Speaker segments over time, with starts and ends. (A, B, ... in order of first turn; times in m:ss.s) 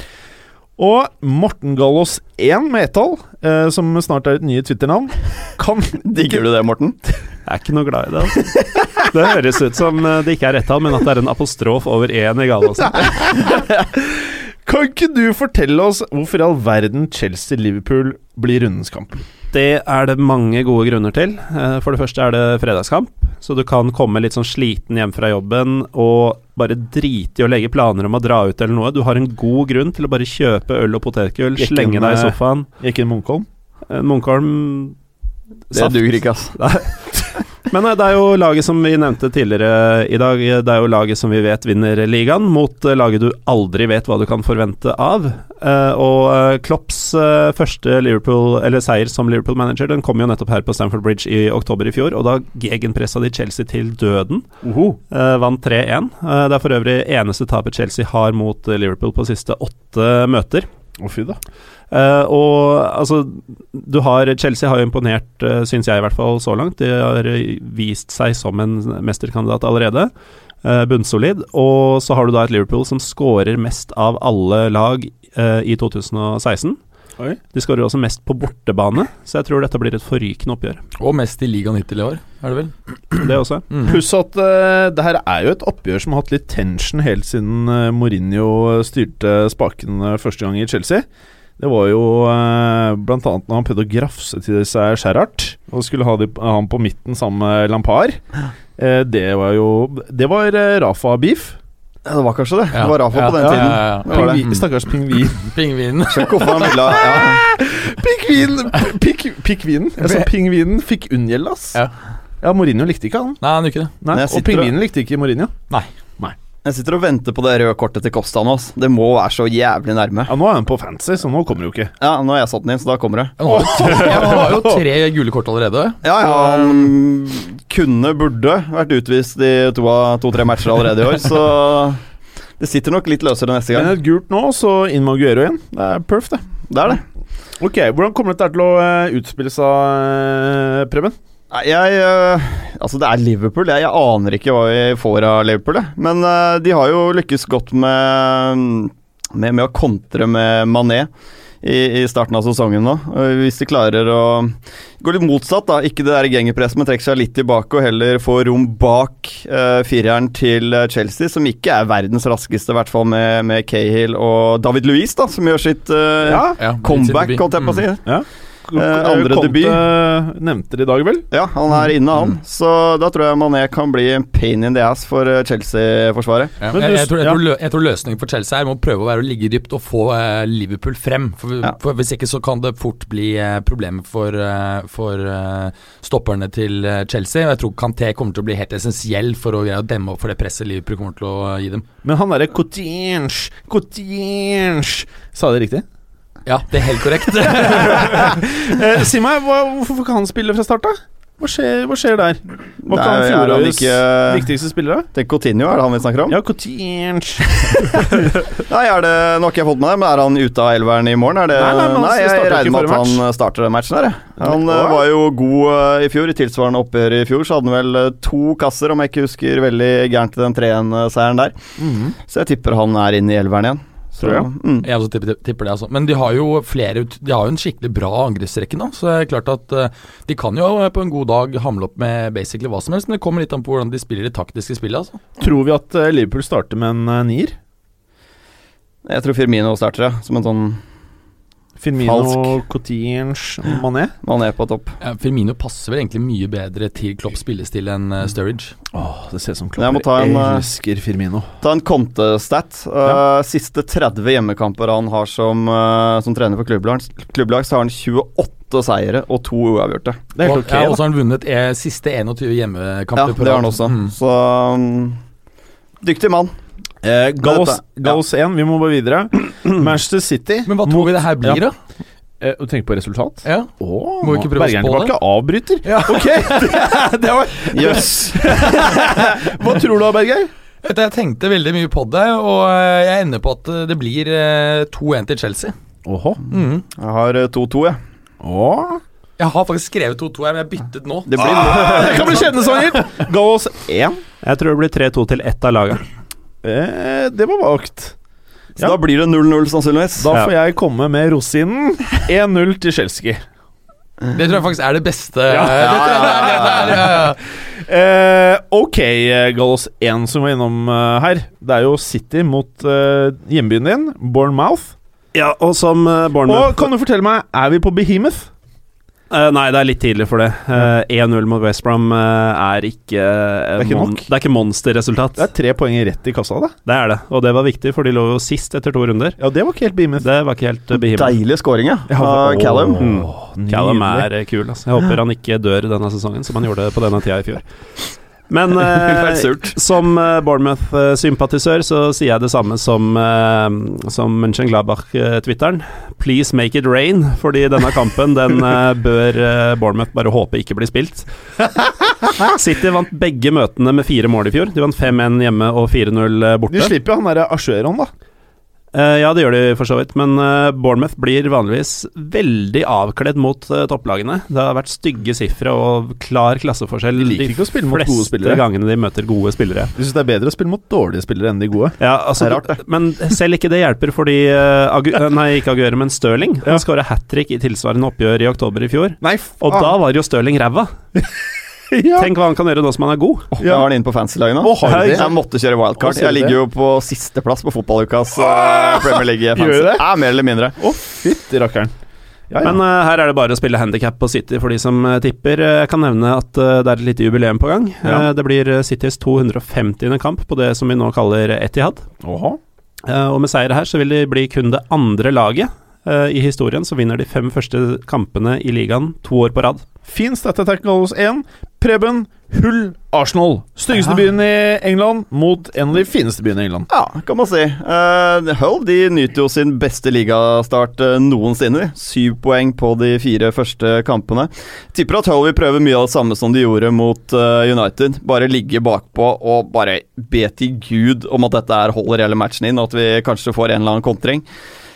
0:00.8-0:06.4 A
0:06.0-0:07.0 B
0:07.5-0:13.5 C
0:13.0-0:19.2 A
0:19.5-0:32.7 C
0:31.6-0:33.5 A
0:33.9-0:35.0 C
0:35.7-0:54.5 C
0:35.7-0:36.6 B
0:54.6-0:55.0 A
0:55.1-1:00.7 C
1:01.0-1:01.4 A
1:01.9-1:10.1 C
1:10.6-1:16.8 C
1:17.5-1:20.8 C
1:21.0-1:24.0 D
1:23.2-1:23.7 C
1:23.8-1:31.1 A
1:31.6-1:38.2 A
1:38.8-1:41.6 A
1:42.0-1:44.4 B
1:42.7-1:44.7 D
1:43.4-1:45.5 A
1:45.3-1:47.1 D
1:46.1-1:47.4 B
1:46.6-1:51.8 A
1:50.0-1:50.3 D
1:52.4-1:53.4 A
1:53.4-1:53.9 D
1:54.0-1:55.5 A
1:54.1-1:54.7 B
1:56.6-2:00.3 B
2:00.3-2:01.9 A
2:02.0-2:03.4 B
2:03.4-2:06.8 D
2:03.5-2:04.8 A
2:06.0-2:12.0 B
2:12.6-2:13.9 B
2:13.7-2:16.4 A
2:16.7-2:17.0 B
2:17.6-2:21.2 A
2:21.5-2:31.1 B
2:31.6-2:48.2 B
2:46.2-2:46.6 A
2:46.6-2:47.8 D
2:48.1-2:51.3 A
2:48.8-2:49.9 B
2:51.3-2:56.6 B
2:56.6-3:11.8 D
2:56.7-2:57.4 A
3:12.0-3:15.9 A
3:16.5-3:18.3 D
3:17.4-3:25.1 A
3:22.9-3:24.5 B
3:25.1-3:26.4 B
3:26.3-3:28.0 A
3:27.8-3:41.6 B
3:31.5-3:33.2 A
3:34.4-3:35.1 A
3:41.8-3:42.2 A
3:42.3-3:44.9 B
3:44.2-3:44.5 A
3:44.8-3:55.2 D
3:55.4-3:57.6 A
3:59.1-4:00.8 B
4:01.8-4:04.1 A
4:02.0-4:02.6 B
4:04.2-4:05.0 B
4:05.0-4:08.7 D
4:08.9-4:11.5 A
4:09.8-4:10.7 B
4:11.6-4:20.2 B
4:20.4-4:21.0 A
4:20.4-4:24.1 D
4:23.2-4:25.2 B
4:26.0-4:26.5 B
4:27.0-4:31.6 A
4:27.4-4:28.2 B
4:30.7-4:31.8 D
4:32.4-4:40.5 A
4:33.4-4:33.7 D
4:34.2-4:35.2 D
4:35.8-4:39.4 D
4:37.7-4:38.6 B
4:40.8-4:45.8 D
4:46.0-4:46.4 A
4:46.5-4:46.8 D
4:47.0-4:48.0 B
4:48.4-4:49.0 A
4:49.4-4:52.9 D
4:51.3-4:52.5 B
4:51.4-4:54.2 A
4:54.4-4:56.0 C
4:56.6-4:58.2 A
4:58.8-5:00.3 B
5:00.2-5:03.4 A
5:04.3-5:07.4 D
5:05.5-5:14.9 A
5:05.8-5:06.9 B
5:15.3-5:16.9 C
5:16.5-5:18.5 A
5:19.3-5:25.5 C
5:23.8-5:24.3 A
5:25.4-5:26.8 A
5:26.9-5:29.4 C
5:29.4-5:30.3 A
5:30.2-5:31.4 C
5:31.0-5:33.0 B
5:32.1-5:34.3 A
5:32.6-5:37.6 C
5:38.5-5:51.3 C
5:38.8-5:39.8 B
5:52.4-5:56.9 C
5:56.7-5:58.1 A
5:58.9-6:09.9 C
6:07.2-6:08.6 A
6:10.0-6:12.0 A
6:12.0-6:20.9 C
6:12.4-6:12.8 B
6:19.2-6:20.0 A
6:21.9-6:22.3 A
6:22.2-6:23.5 C
6:23.5-6:30.8 B
6:23.6-6:23.9 A
6:24.6-6:25.4 A
6:24.8-6:25.4 C
6:26.0-6:26.6 A
6:28.4-6:30.1 A
6:30.8-6:31.9 A
6:32.5-6:32.8 A
6:32.6-6:42.1 C
6:38.0-6:38.3 A
6:42.2-6:42.6 A
6:43.1-6:49.9 C
6:50.1-6:56.9 A
6:56.9-7:14.5 B